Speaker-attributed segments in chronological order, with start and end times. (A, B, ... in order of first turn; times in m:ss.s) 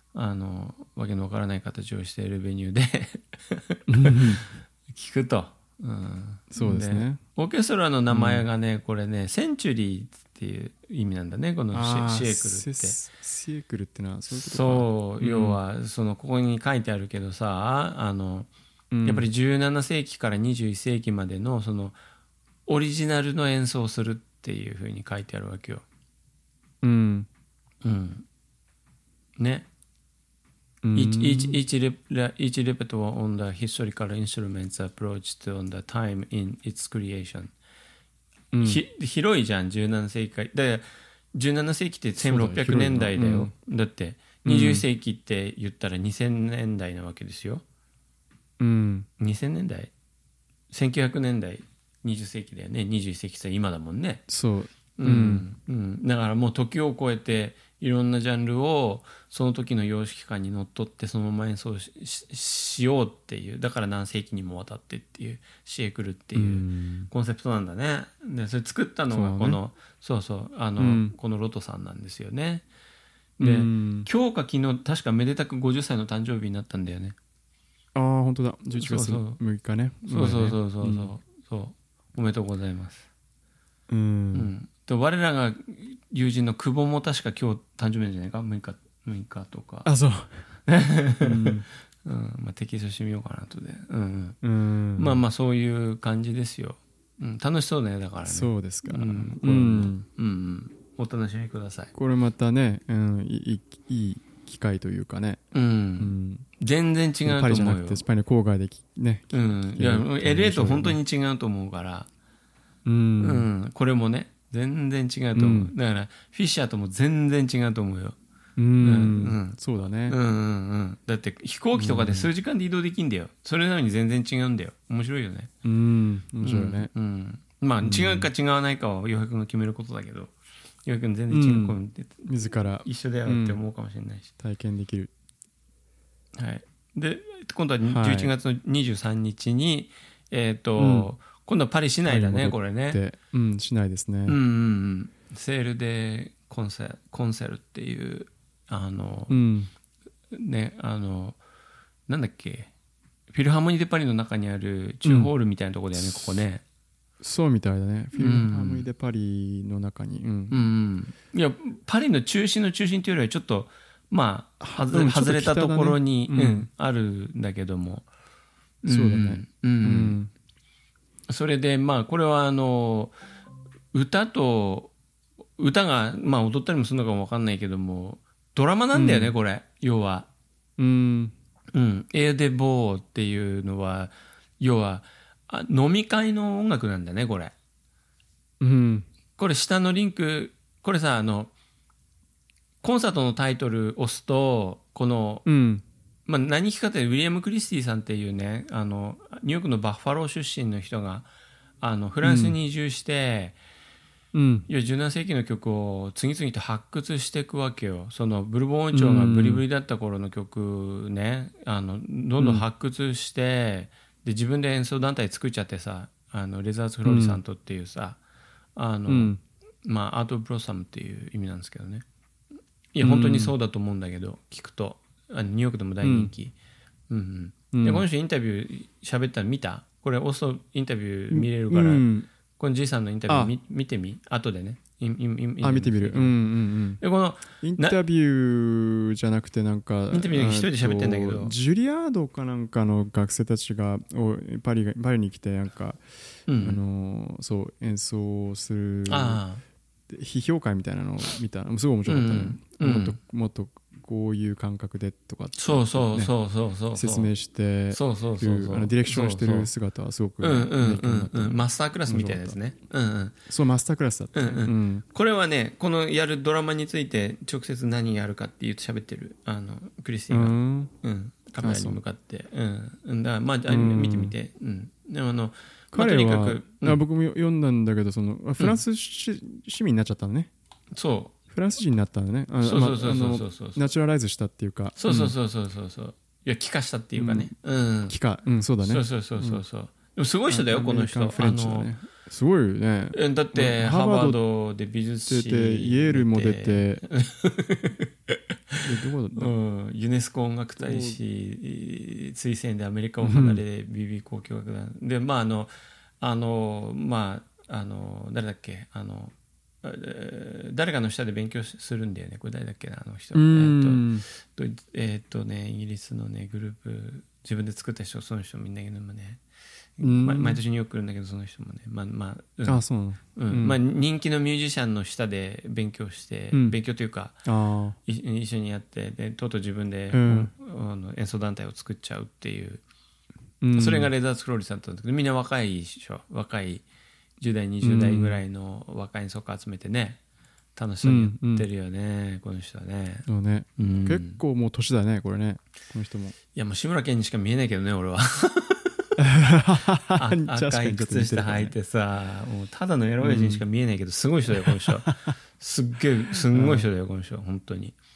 0:00.1-0:13.0 A
0:03.9-0:04.4 B
0:06.5-0:07.2 B
0:08.1-0:08.4 B
0:11.7-0:15.6 B
0:14.3-0:18.5 A
0:18.9-0:19.3 B
0:19.0-0:22.0 A
0:22.7-0:25.8 A
0:26.8-0:27.3 B
0:27.8-0:28.3 A
0:29.4-0:29.7 A
0:30.8-0:31.6 B
0:30.9-0:37.5 A
0:38.5-0:38.8 B
0:38.6-0:47.6 A
0:42.2-0:43.5 B
0:44.4-0:44.8 B
0:48.6-0:49.1 B
0:49.2-0:49.9 A
0:50.7-0:54.2 A
0:54.3-0:55.5 B
0:55.0-1:12.7 A
1:06.4-1:07.1 B
1:09.1-1:09.6 B
1:10.8-1:11.2 B
1:13.4-1:17.2 A
1:13.4-1:14.1 B
1:18.0-1:21.1 B
1:18.8-1:19.4 A
1:20.1-1:23.1 A
1:23.9-1:24.5 B
1:24.3-1:29.9 A
1:29.8-1:30.5 B
1:30.7-1:34.4 A
1:31.2-1:31.7 B
1:34.4-1:35.2 B
1:35.0-1:41.9 A
1:38.3-1:40.1 B
1:41.9-1:45.4 B
1:45.5-1:48.0 A
1:46.0-1:46.5 B
1:47.2-1:51.0 B
1:49.3-1:52.1 A
1:52.8-1:53.5 B
1:53.2-1:58.2 A
1:55.4-1:55.7 B
1:58.6-2:00.2 B
1:58.8-2:05.5 A
2:01.8-2:02.3 B
2:05.6-2:06.9 B
2:06.4-2:10.3 A
2:07.8-2:08.3 B
2:10.8-2:12.3 A
2:11.3-2:13.6 B
2:12.8-2:14.3 A
2:14.4-2:15.1 B
2:16.4-2:23.0 A
2:17.8-2:18.3 B
2:20.8-2:21.1 B
2:22.1-2:24.4 B
2:24.3-2:29.4 A
2:29.3-2:29.7 B
2:30.3-2:31.4 A
2:32.1-2:32.7 A
2:33.3-2:36.6 A
2:35.0-2:35.3 B
2:37.2-2:40.7 B
2:38.2-2:38.9 A
2:40.5-2:48.1 A
2:44.6-2:46.7 B
2:48.8-2:50.2 A
2:48.9-2:50.3 B
2:51.3-2:53.1 A
2:53.9-2:54.9 A
2:55.6-3:00.3 A
2:58.9-2:59.3 B
3:00.8-3:01.3 B
3:01.7-3:07.5 A
3:08.6-3:09.1 B
3:09.4-3:11.5 A
3:12.8-3:15.5 A
3:15.5-3:15.8 B
3:16.3-3:21.3 A
3:21.8-3:23.6 A
3:22.2-3:22.6 B
3:24.3-3:24.7 B
3:24.7-3:38.2 A
3:28.9-3:29.6 B
3:32.4-3:32.6 B
3:37.0-3:37.4 B
3:38.8-3:42.0 A
3:39.1-3:39.4 B
3:42.9-3:46.5 A
3:43.0-3:43.5 B
3:46.0-3:46.3 B
3:47.1-3:52.1 A
3:47.7-3:48.0 B
3:51.3-3:52.3 B
3:52.6-3:56.4 A
3:53.3-3:53.5 B
3:55.6-3:57.0 B
3:57.0-3:58.0 A
3:57.6-4:06.0 B
4:00.1-4:01.5 A
4:06.5-4:06.8 A
4:06.6-4:09.4 B
4:09.1-4:09.6 A
4:10.1-4:16.3 B
4:12.1-4:13.2 A
4:15.6-4:17.3 A
4:16.9-4:22.6 B
4:17.9-4:19.7 A
4:20.4-4:23.4 A
4:23.5-4:25.0 B
4:24.4-4:37.0 A
4:30.3-4:30.9 B
4:31.6-4:32.0 B
4:33.7-4:34.4 B
4:35.9-4:40.5 B
4:40.9-4:41.4 A
4:41.5-4:45.3 B
4:42.6-4:43.8 A
4:45.0-4:48.2 A
4:47.2-4:47.5 B
4:48.1-4:49.6 B
4:48.8-4:51.9 A
4:50.5-4:54.4 B
4:53.1-4:58.8 A
4:55.3-4:57.0 B
4:58.8-4:59.5 B
4:59.4-5:19.4 A
5:00.8-5:01.2 B
5:03.2-5:03.6 B
5:13.3-5:14.2 B
5:20.0-5:22.8 A
5:20.0-5:20.6 B
5:22.6-5:23.8 B
5:23.4-5:27.4 A
5:26.5-5:26.8 B
5:27.5-5:28.0 B
5:28.1-5:32.8 A
5:30.1-5:30.5 B
5:33.6-5:34.1 B
5:33.8-5:36.8 A
5:37.4-5:40.2 A
5:37.8-5:38.4 B
5:40.8-5:43.3 A
5:41.0-5:41.7 B
5:43.3-5:46.4 B
5:43.8-5:44.4 A
5:46.5-5:49.2 A
5:49.2-5:51.8 B
5:50.2-5:58.0 A
5:53.2-5:53.6 B
5:54.5-5:55.3 B
5:56.5-5:56.9 B